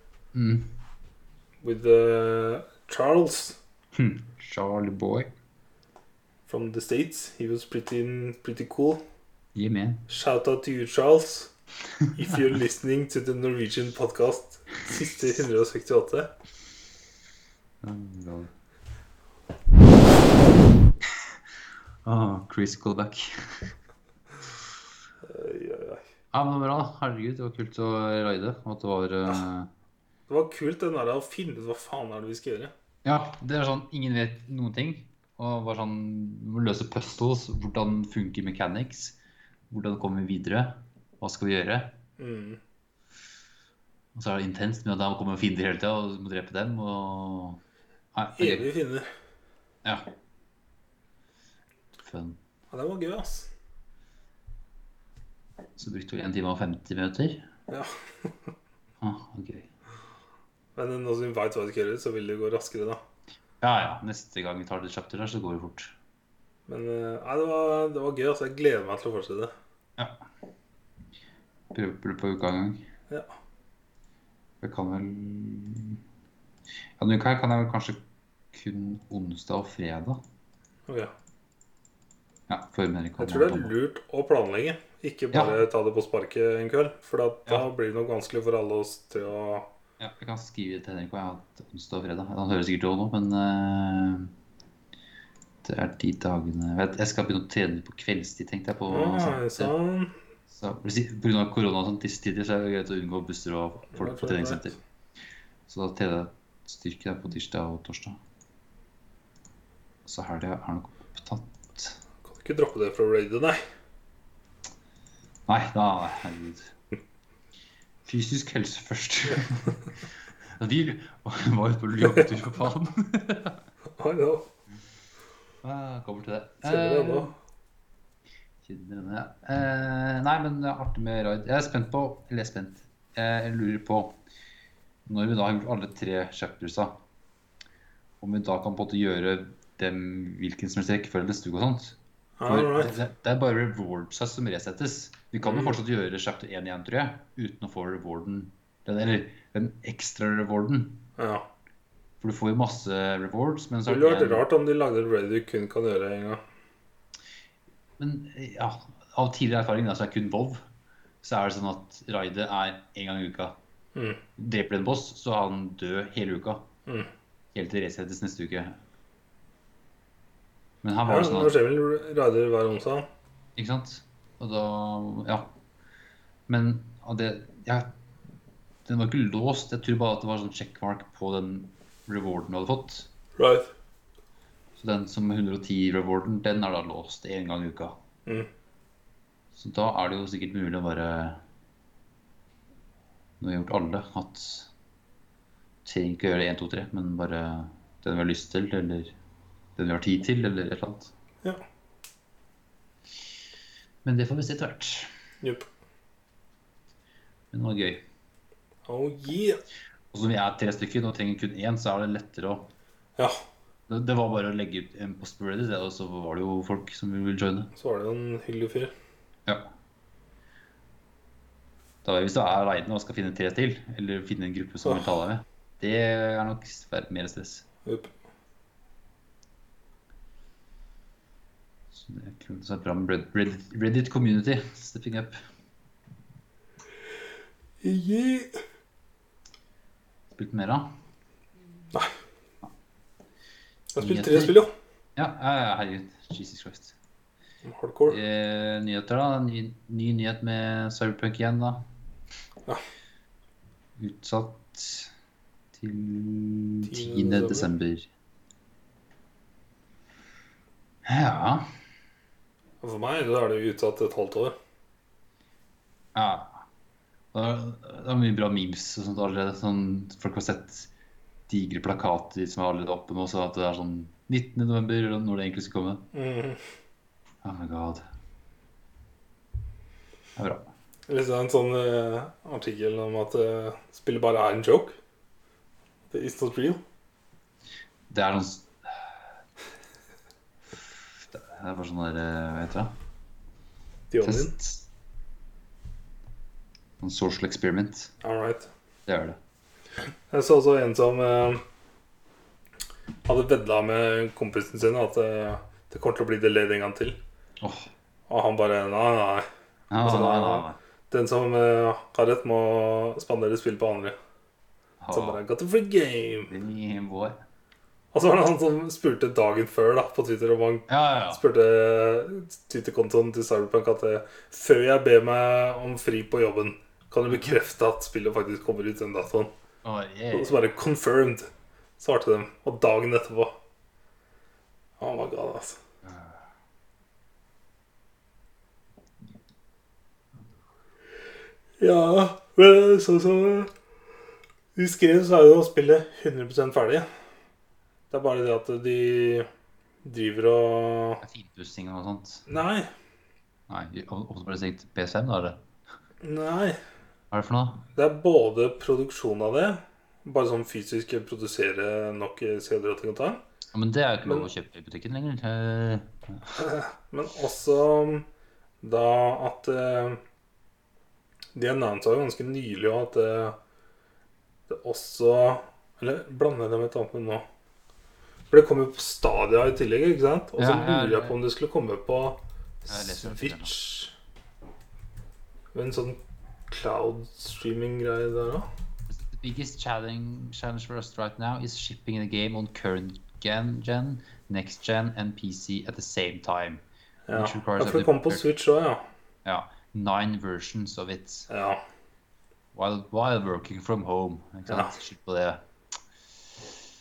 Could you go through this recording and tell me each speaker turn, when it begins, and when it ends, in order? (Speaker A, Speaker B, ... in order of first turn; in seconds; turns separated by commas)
Speaker A: 0.3-0.7, Speaker B: 1.6-3.6, Speaker A: 3.9-5.3, Speaker B: 6.5-9.0, Speaker A: 9.6-10.0, Speaker B: 10.1-11.5, Speaker A: 12.0-12.4, Speaker B: 12.1-16.3, Speaker A: 17.8-18.5, Speaker A: 21.1-21.4, Speaker A: 22.1-23.7, Speaker B: 25.2-26.0, Speaker A: 26.3-29.7, Speaker B: 30.3-32.7, Speaker A: 33.0-39.2, Speaker A: 39.7-42.0, Speaker B: 42.2-42.6, Speaker A: 44.1-47.6, Speaker A: 48.1-48.7, Speaker B: 48.4-49.1, Speaker A: 52.0-52.4, Speaker B: 52.7-53.5, Speaker A: 55.8-57.5, Speaker B: 57.7-58.5, Speaker A: 59.0-59.7, Speaker B: 60.8-63.0, Speaker A: 63.6-65.9, Speaker B: 66.7-69.5, Speaker A: 70.0-70.2, Speaker A: 71.7-72.9, Speaker A: 74.6-76.0, Speaker A: 77.0-78.0, Speaker A: 78.5-80.2, Speaker A: 82.5-83.7, Speaker B: 83.2-89.7, Speaker A: 85.3-85.6, Speaker A: 90.0-94.3, Speaker A: 95.6-99.7, Speaker B: 98.9-100.1, Speaker A: 100.5-104.8, Speaker B: 103.9-104.8, Speaker A: 105.7-108.2, Speaker A: 110.0-112.0, Speaker B: 112.3-113.6, Speaker A: 115.5-116.7, Speaker A: 118.1-123.6, Speaker B: 124.0-124.5, Speaker A: 125.6-127.3, Speaker B: 126.6-127.3, Speaker A: 128.6-134.2, Speaker A: 135.1-137.0, Speaker A: 138.2-151.0, Speaker B: 142.4-143.0, Speaker B: 145.4-145.8, Speaker B: 151.2-151.5, Speaker A: 152.2-154.4, Speaker B: 153.9-156.4, Speaker A: 158.0-160.6, Speaker A: 161.2-163.6, Speaker B: 163.9-164.2, Speaker A: 164.4-166.7, Speaker A: 167.5-168.8, Speaker A: 170.8-171.6, Speaker B: 171.1-173.1, Speaker A: 173.6-175.5, Speaker A: 176.5-177.9, Speaker A: 178.8-183.1, Speaker B: 183.4-183.7, Speaker A: 184.8-188.0, Speaker A: 189.5-191.4, Speaker A: 193.4-194.7, Speaker A: 195.8-199.1, Speaker A: 199.8-201.1, Speaker A: 204.0-205.1, Speaker A: 207.5-208.1, Speaker B: 208.9-209.6, Speaker A: 210.1-212.7, Speaker A: 213.9-217.7, Speaker B: 217.8-218.9, Speaker A: 219.5-219.7, Speaker A: 222.0-227.7, Speaker B: 224.8-225.1, Speaker B: 227.8-228.1, Speaker A: 231.9-235.4, Speaker B: 237.8-238.5, Speaker A: 240.3-240.9, Speaker B: 243.9-244.7, Speaker A: 244.0-244.6, Speaker A: 245.2-247.0, Speaker B: 247.7-248.2, Speaker A: 248.1-251.9, Speaker A: 254.0-255.1, Speaker A: 255.7-258.1, Speaker B: 256.8-257.7, Speaker A: 261.1-261.7, Speaker B: 262.8-264.6, Speaker A: 266.1-266.6, Speaker A: 267.3-270.9, Speaker A: 271.5-276.1, Speaker B: 276.1-276.6, Speaker A: 277.4-278.0, Speaker A: 280.4-280.7, Speaker B: 281.1-285.0, Speaker B: 286.1-286.8, Speaker A: 288.1-289.1, Speaker A: 291.2-292.9, Speaker B: 294.1-294.5, Speaker A: 294.2-294.9, Speaker A: 297.0-298.1, Speaker B: 298.2-298.7, Speaker A: 299.1-299.4, Speaker B: 300.3-301.6, Speaker B: 303.2-307.2, Speaker A: 307.6-307.9, Speaker B: 308.3-309.5, Speaker A: 309.9-310.8, Speaker B: 310.0-314.2, Speaker A: 315.0-315.4, Speaker B: 315.1-316.5, Speaker A: 316.5-317.4, Speaker B: 318.1-329.5, Speaker A: 320.9-321.4, Speaker A: 329.8-330.6, Speaker B: 330.3-333.6, Speaker B: 335.0-335.8, Speaker A: 336.0-336.4, Speaker B: 341.8-343.7, Speaker B: 344.8-347.1, Speaker B: 348.1-349.5, Speaker B: 350.0-351.2, Speaker A: 351.2-352.4, Speaker B: 352.5-352.9, Speaker A: 353.7-355.6, Speaker B: 356.2-356.8, Speaker A: 357.3-357.9, Speaker B: 357.9-363.4, Speaker A: 363.7-366.5, Speaker B: 366.5-368.3, Speaker B: 368.8-370.2, Speaker B: 371.6-373.6, Speaker B: 374.7-377.4, Speaker B: 378.5-384.1, Speaker A: 380.6-381.4, Speaker A: 382.9-383.8, Speaker B: 385.7-388.7, Speaker A: 389.1-398.4, Speaker B: 397.3-399.1, Speaker A: 399.4-401.5, Speaker B: 401.5-401.8, Speaker A: 402.7-405.6, Speaker B: 404.7-404.9